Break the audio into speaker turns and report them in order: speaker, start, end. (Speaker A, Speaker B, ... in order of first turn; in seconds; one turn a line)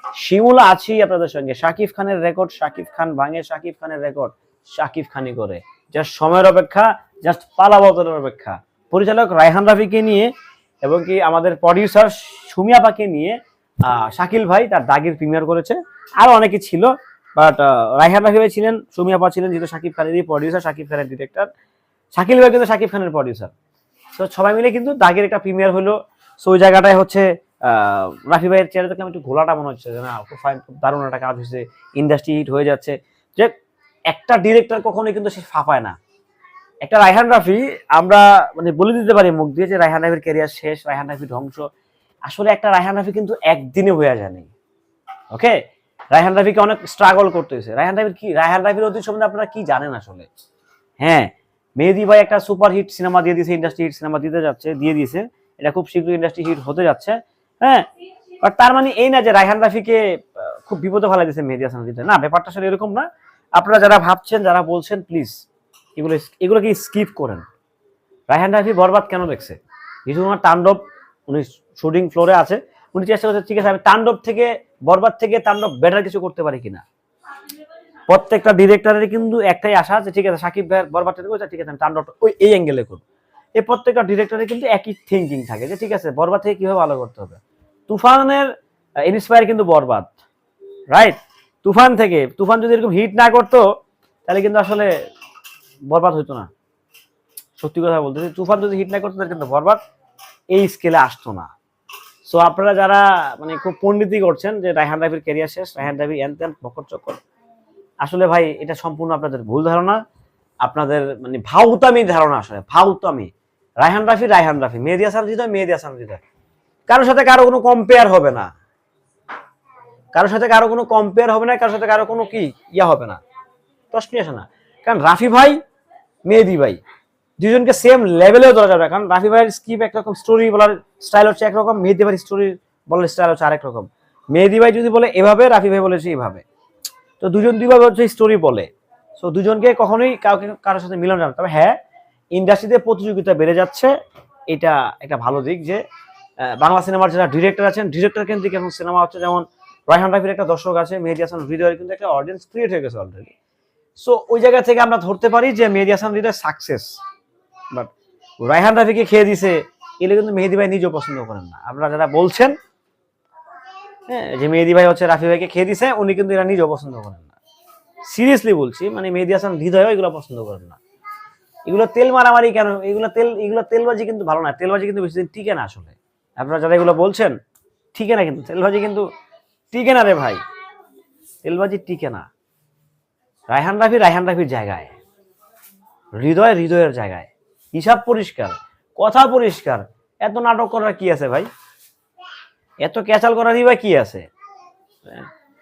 Speaker A: 0.2-10.3
Speaker A: 10.8-21.5
Speaker A: 22.1-23.5
Speaker A: 24.1-33.5
Speaker A: 34.1-36.0
Speaker A: 36.8-41.7
Speaker A: 42.2-44.5
Speaker A: 45.3-45.5
Speaker A: 46.1-50.3
Speaker A: 51.0-57.9
Speaker A: 58.4-65.3
Speaker A: 65.9-67.4
Speaker A: 68.3-76.8
Speaker A: 78.1-83.0
Speaker A: 83.5-88.5
Speaker A: 89.0-90.2
Speaker A: 90.9-93.7
Speaker A: 94.2-94.9
Speaker A: 95.9-96.5
Speaker A: 97.6-99.8
Speaker A: 100.5-101.5
Speaker A: 102.2-107.2
Speaker A: 108.0-110.0
Speaker A: 110.6-116.2
Speaker A: 116.9-118.5
Speaker A: 120.1-123.2
Speaker A: 123.9-125.6
Speaker A: 126.2-126.8
Speaker A: 127.4-136.4
Speaker A: 137.2-141.8
Speaker A: 142.3-143.9
Speaker A: 144.5-145.8
Speaker A: 146.4-153.3
Speaker A: 153.9-157.0
Speaker A: 157.7-162.5
Speaker A: 164.1-167.4
Speaker A: 168.1-170.8
Speaker A: 171.7-177.3
Speaker A: 177.9-179.1
Speaker A: 179.7-180.4
Speaker A: 181.4-182.3
Speaker A: 183.5-184.9
Speaker A: 186.1-191.5
Speaker A: 192.8-194.2